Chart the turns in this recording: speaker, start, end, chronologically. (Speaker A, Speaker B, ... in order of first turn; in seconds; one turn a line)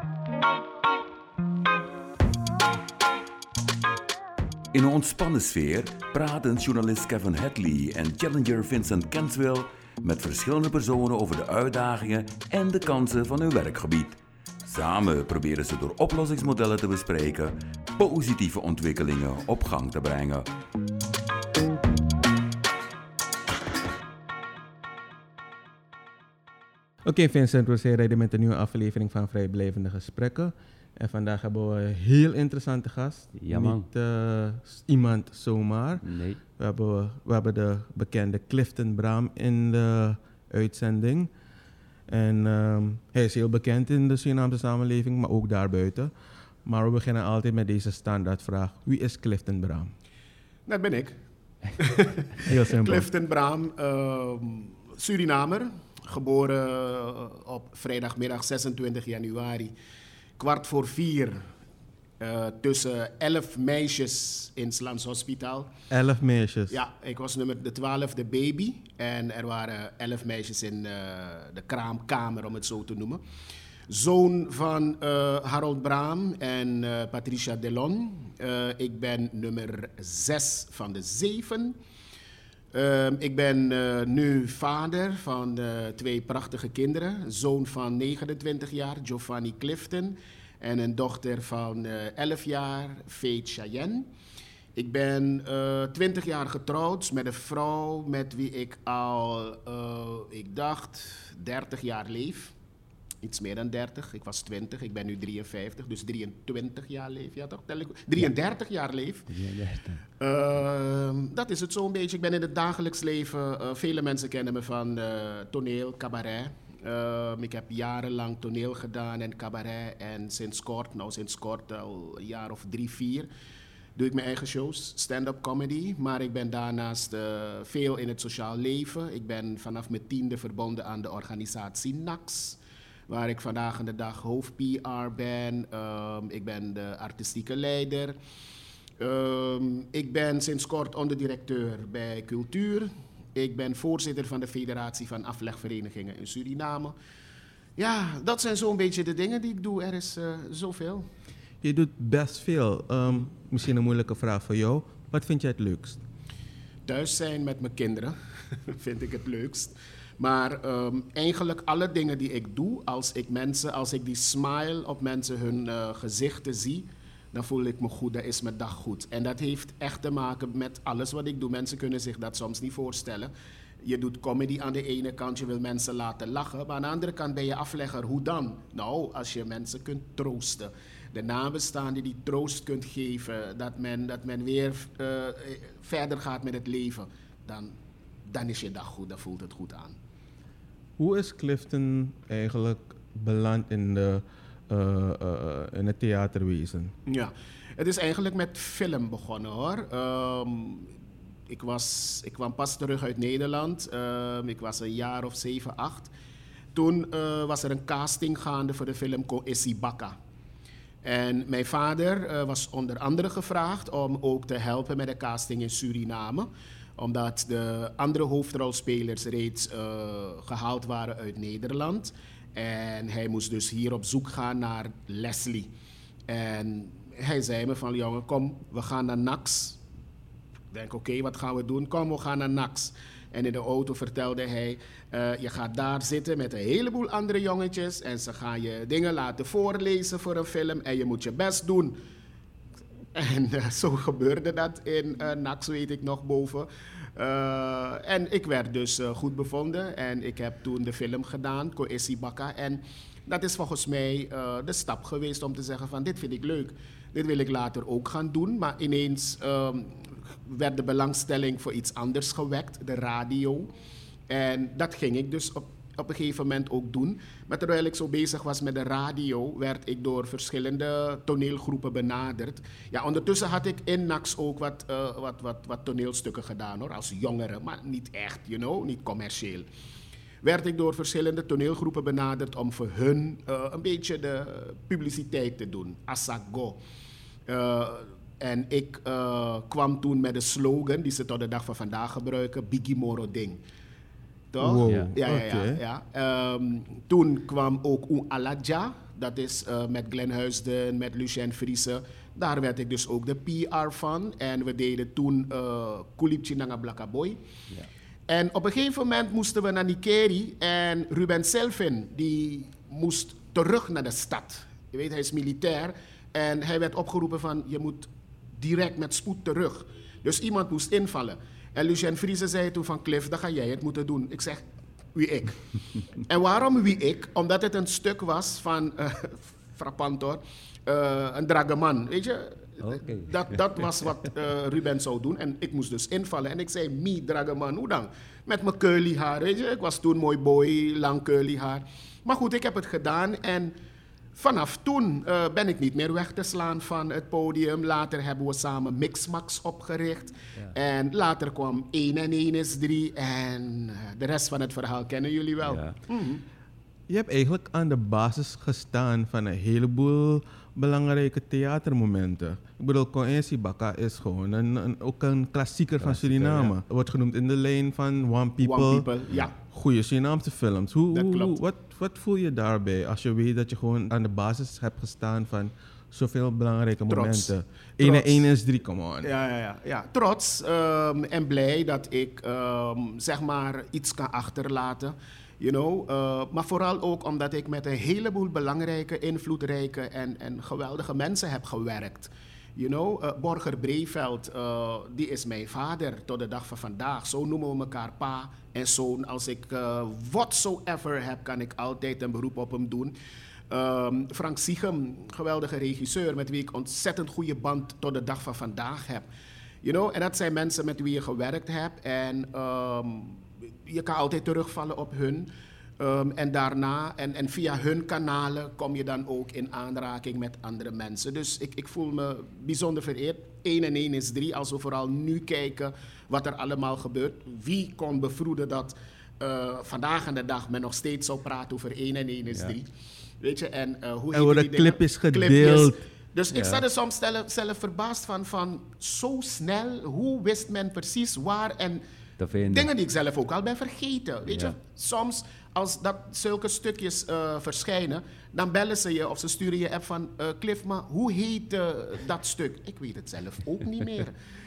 Speaker A: 4.7-20.5
Speaker B: 27.1-36.0
Speaker C: 33.4-33.9
Speaker C: 36.0-36.4
Speaker B: 36.6-41.3
Speaker B: 42.1-46.1
Speaker B: 46.6-49.9
Speaker D: 50.7-51.2
Speaker D: 51.8-59.7
Speaker B: 52.5-53.1
Speaker D: 60.4-61.5
Speaker D: 62.2-65.7
Speaker B: 65.9-66.8
Speaker D: 66.7-73.2
Speaker D: 73.9-81.8
Speaker D: 82.7-94.1
Speaker D: 94.8-102.5
Speaker D: 103.2-109.3
Speaker C: 109.3-110.0
Speaker D: 110.2-123.3
Speaker D: 124.0-138.2
Speaker D: 139.0-146.9
Speaker D: 147.8-151.1
Speaker B: 151.6-156.0
Speaker D: 156.9-173.3
Speaker D: 173.8-190.0
Speaker B: 191.0-196.9
Speaker D: 197.1-200.9
Speaker D: 201.5-206.1
Speaker D: 206.8-210.2
Speaker D: 211.0-225.7
Speaker D: 226.3-229.8
Speaker D: 230.7-242.0
Speaker D: 243.2-263.7
Speaker D: 264.3-279.7
Speaker D: 280.4-286.8
Speaker D: 287.5-293.6
Speaker D: 294.5-307.4
Speaker B: 294.6-295.8
Speaker D: 308.3-325.6
Speaker D: 326.2-343.7
Speaker C: 332.8-333.6
Speaker D: 344.4-356.4
Speaker C: 355.6-355.9
Speaker B: 357.1-369.1
Speaker C: 366.0-366.7
Speaker D: 368.6-369.5
Speaker B: 369.6-379.3
Speaker D: 371.1-371.6
Speaker D: 377.1-378.5
Speaker D: 379.2-403.1
Speaker D: 403.7-409.3
Speaker D: 409.8-432.9
Speaker D: 433.4-442.0
Speaker B: 434.3-436.0
Speaker C: 436.5-436.8
Speaker C: 442.4-442.9
Speaker D: 442.7-454.4
Speaker C: 444.5-444.7